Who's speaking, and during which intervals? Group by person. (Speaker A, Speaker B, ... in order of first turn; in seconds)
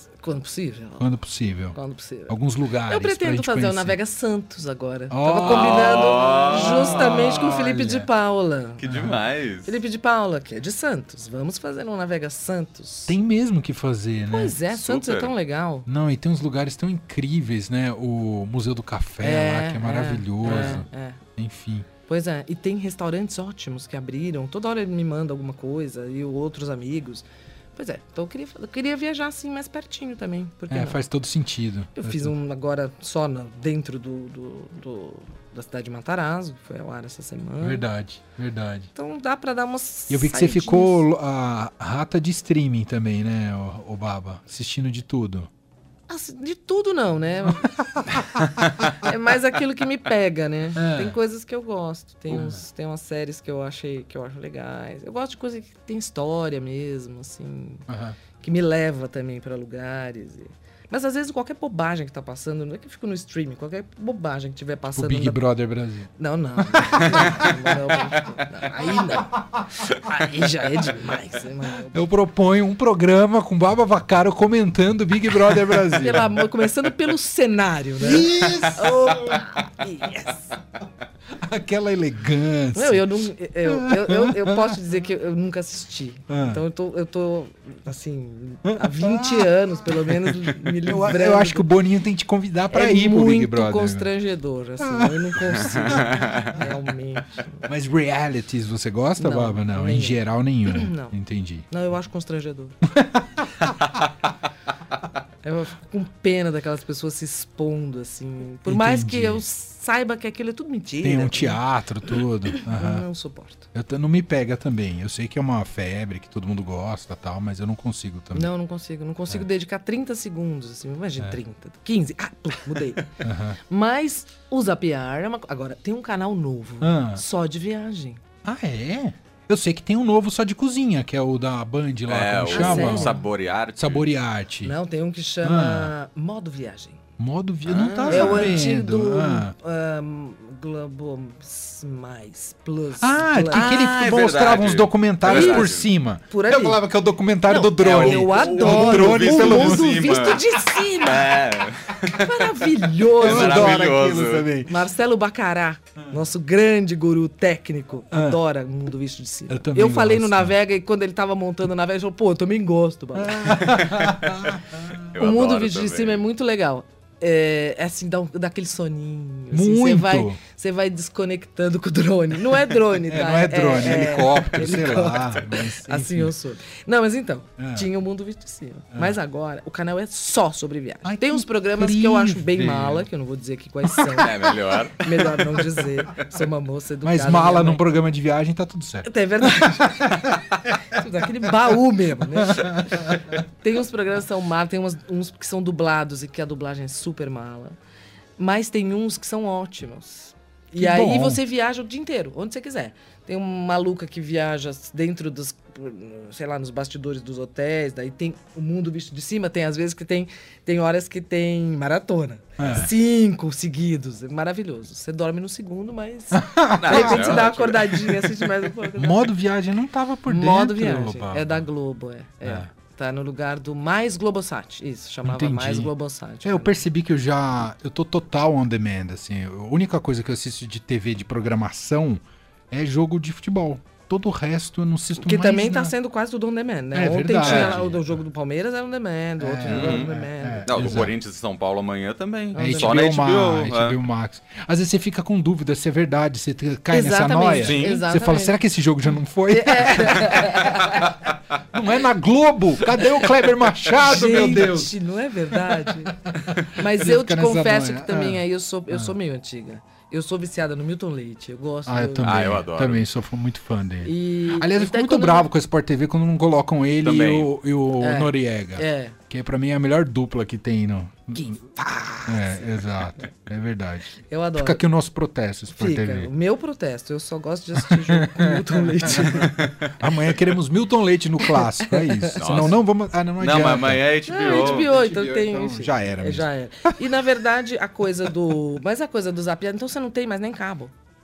Speaker A: 0.2-1.1, 1.7-8.9, 9.6-13.1, 14.3-15.9, 19.2-21.2, 22.0-31.0, 31.9-37.8, 38.9-41.0, 46.1-57.9, 58.4-65.4, 66.2-72.0, 75.8-80.6, 82.7-91.7, 92.7-97.7, 99.2-101.1, 101.7-102.8, 105.4-111.6, 112.5-113.7, 118.3-128.2, 132.5-133.2, 134.6-137.0, 138.1-144.0, 145.3-145.8, 146.3-146.9, 147.4-151.4, 152.1-154.1, 154.7-164.1, 165.1-187.9, 189.0-197.8, 198.4-219.3, 220.3-226.8, 235.2-241.0, 242.5-243.1, 246.9-248.6, 249.5-251.1, 253.9-262.5, 264.0-265.5, 268.0-269.1, 271.6-272.8, 274.3-274.8, 275.7-279.7, 281.6-282.7, 284.3-290.9
Speaker B: 1.0-1.8, 2.3-4.0, 5.1-8.1, 8.8-9.2, 13.1-14.6, 15.8-21.9, 30.7-32.3, 37.6-38.9, 40.1-45.5, 47.9-48.9, 50.8-51.1, 52.3-52.6, 57.9-58.2, 64.9-66.1, 66.7-67.6, 71.9-76.3, 78.0-79.5, 81.4-83.1, 83.6-84.7, 86.3-86.6, 88.6-94.1, 94.8-95.8, 97.6-101.6, 102.8-103.8, 108.7-109.4, 111.0-113.0, 113.7-118.5, 123.2-123.6, 126.8-127.2, 128.4-133.2, 133.8-134.7, 135.4-135.9, 137.2-139.5, 143.0-150.2, 153.2-154.8, 158.1-158.4, 159.5-160.5, 163.2-165.0, 169.5-170.4, 173.1-176.3, 177.6-177.9, 181.0-183.1, 187.0-190.8, 192.4-193.1, 200.8-201.4, 212.6-212.9, 216.3-218.2, 218.9-221.6, 225.2-225.9, 226.4-235.9, 236.9-238.2, 239.4-241.1, 242.6-251.1, 251.7-254.9, 255.7-259.1, 261.9-271.7, 272.2-276.3, 277.8-287.1
Speaker C: 5.4-7.6, 8.8-9.8, 14.7-15.3, 95.8-96.5, 132.1-134.1, 137.7-138.7, 143.5-145.9, 147.8-152.5, 153.2-154.5, 165.1-166.2, 184.1-185.1, 216.8-217.8, 237.4-237.8, 239.7-240.1, 240.6-244.0, 247.6-248.0, 262.2-263.1, 267.0-267.5, 282.4-282.8, 283.4-285.0